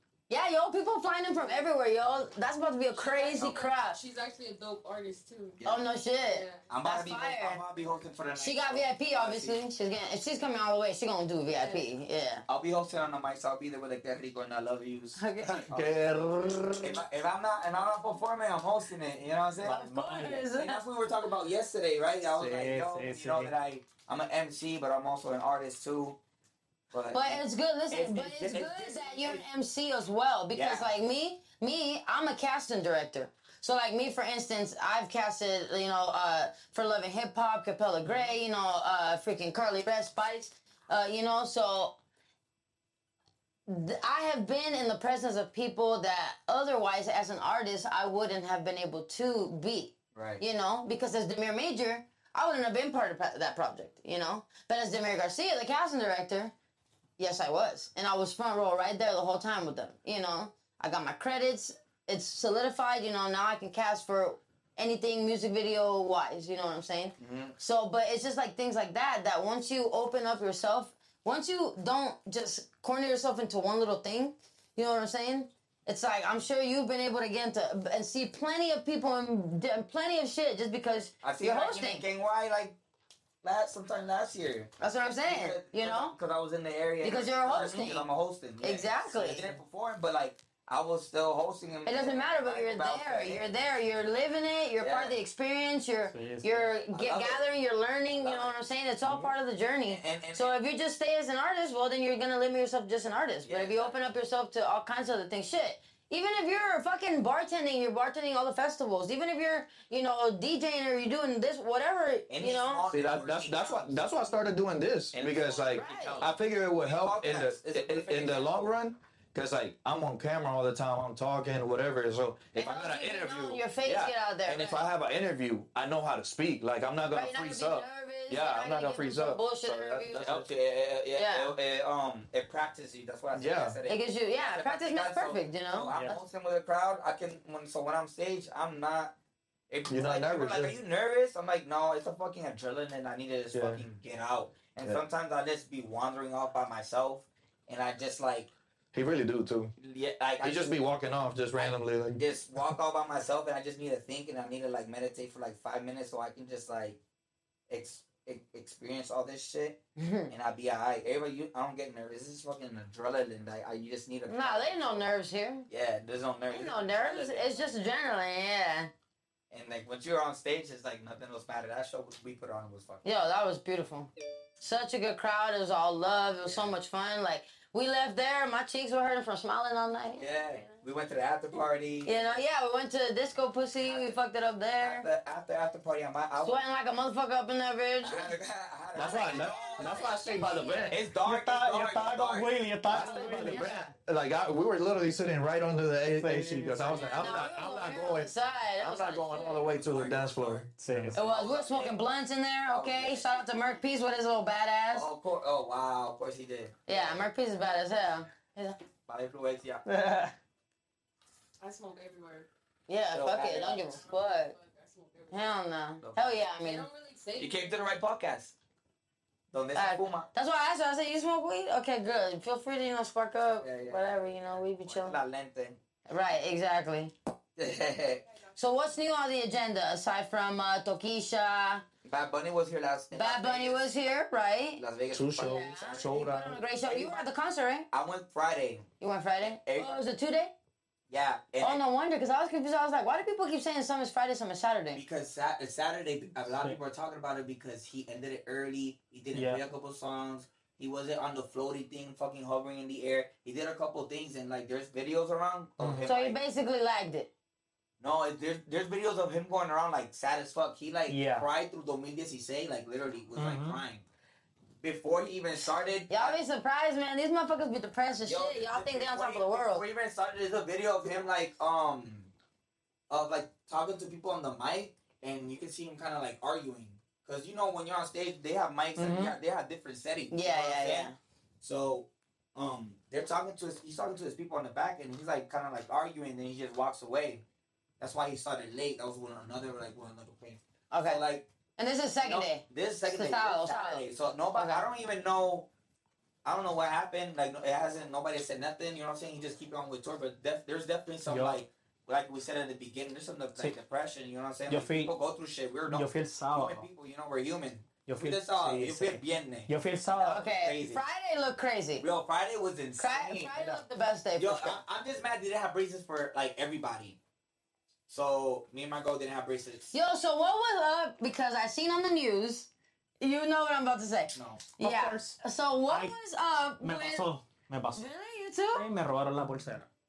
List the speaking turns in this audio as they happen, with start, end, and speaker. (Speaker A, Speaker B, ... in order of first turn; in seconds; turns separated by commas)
Speaker A: 0.3-4.0, Speaker B: 1.3-1.7, Speaker B: 2.9-5.6, Speaker C: 5.6-5.8, Speaker A: 5.7-7.6, Speaker B: 6.2-6.7, Speaker C: 6.7-9.6, Speaker A: 8.4-12.4, Speaker B: 11.5-11.8, Speaker C: 12.5-16.1, Speaker A: 15.2-15.7, Speaker D: 15.4-17.0, Speaker C: 16.8-19.8, Speaker E: 19.6-20.5, Speaker A: 19.6-20.8, Speaker C: 20.5-26.2, Speaker E: 22.3-23.5, Speaker C: 26.9-29.4, Speaker A: 27.1-41.9, Speaker C: 30.5-30.9, Speaker C: 38.1-38.3, Speaker A: 43.7-56.5, Speaker C: 50.1-50.4, Speaker A: 57.2-82.1, Speaker C: 67.2-67.5, Speaker C: 81.2-82.8, Speaker C: 83.4-84.7, Speaker A: 84.8-86.2, Speaker C: 85.2-93.5, Speaker A: 87.0-88.1, Speaker A: 88.6-89.6, Speaker A: 91.8-112.9, Speaker C: 94.8-95.2, Speaker E: 96.1-96.7, Speaker C: 96.9-97.4, Speaker C: 98.1-98.6, Speaker C: 99.9-100.5, Speaker C: 103.4-104.0, Speaker C: 112.3-114.2, Speaker D: 112.9-130.5, Speaker C: 115.1-118.7, Speaker A: 115.7-116.3, Speaker A: 122.6-124.8, Speaker A: 127.1-130.3, Speaker C: 130.2-139.1, Speaker A: 131.2-131.5, Speaker D: 133.3-133.8, Speaker A: 133.9-136.2, Speaker C: 139.7-148.5, Speaker D: 139.9-140.8, Speaker D: 143.5-143.8, Speaker D: 148.9-149.7, Speaker C: 149.8-150.8, Speaker D: 150.4-152.2, Speaker C: 151.6-157.0, Speaker C: 157.7-165.1, Speaker A: 160.0-160.3, Speaker A: 164.3-165.7, Speaker C: 165.7-167.7, Speaker A: 166.5-168.9, Speaker C: 169.5-173.0, Speaker A: 173.0-180.3, Speaker C: 176.4-176.8, Speaker C: 180.2-182.4, Speaker B: 180.2-180.8, Speaker A: 182.1-185.1, Speaker C: 183.8-184.2, Speaker C: 184.8-186.6, Speaker A: 186.4-188.3, Speaker C: 188.0-190.1, Speaker D: 188.9-191.0, Speaker A: 189.0-190.9, Speaker C: 190.9-192.5, Speaker E: 191.2-193.7, Speaker D: 192.9-201.2, Speaker A: 192.9-193.9, Speaker E: 196.2-197.1, Speaker A: 196.9-199.7, Speaker C: 199.5-202.0, Speaker E: 200.8-201.2, Speaker A: 201.2-205.1, Speaker C: 202.7-203.3, Speaker C: 204.9-207.3, Speaker A: 206.9-208.8, Speaker C: 209.1-209.8, Speaker E: 209.9-210.3, Speaker B: 211.6-212.5, Speaker A: 212.9-214.6, Speaker C: 213.1-214.0, Speaker B: 213.4-215.6, Speaker A: 215.3-216.9, Speaker C: 216.0-216.4, Speaker B: 216.5-217.8, Speaker C: 217.4-218.6, Speaker C: 219.5-220.3, Speaker A: 219.8-225.2, Speaker C: 223.6-225.8, Speaker A: 226.1-227.1, Speaker C: 227.6-228.2, Speaker A: 228.6-231.8, Speaker C: 232.0-233.9, Speaker A: 233.1-234.8, Speaker C: 234.8-236.3, Speaker D: 235.1-236.6, Speaker A: 235.4-237.9, Speaker C: 236.8-237.3, Speaker C: 237.9-238.9, Speaker A: 239.0-240.5, Speaker C: 239.4-240.0, Speaker C: 241.1-241.8, Speaker A: 241.6-245.0, Speaker C: 244.9-256.4, Speaker E: 249.3-249.6, Speaker E: 255.8-256.1, Speaker A: 256.1-257.3, Speaker C: 258.0-264.0, Speaker E: 261.1-261.5, Speaker E: 263.4-263.8, Speaker C: 264.8-266.4, Speaker A: 266.1-269.9, Speaker C: 268.2-272.3, Speaker C: 273.1-287.4, Speaker E: 279.0-279.3, Speaker A: 280.3-281.1, Speaker C: 288.0-291.5, Speaker A: 290.9-291.2, Speaker A: 291.8-294.9, Speaker C: 292.2-295.7, Speaker C: 296.4-311.0, Speaker E: 301.3-301.6, Speaker E: 304.7-305.1, Speaker E: 305.9-306.9, Speaker E: 308.1-310.4, Speaker A: 310.2-312.1, Speaker C: 312.0-313.9, Speaker A: 313.0-314.8, Speaker C: 314.4-317.2, Speaker C: 318.1-319.9, Speaker A: 319.9-322.7, Speaker A: 323.2-327.3, Speaker C: 324.3-324.7, Speaker E: 324.8-325.4, Speaker E: 325.9-326.1, Speaker E: 326.8-328.0, Speaker A: 327.9-328.9, Speaker E: 328.7-329.9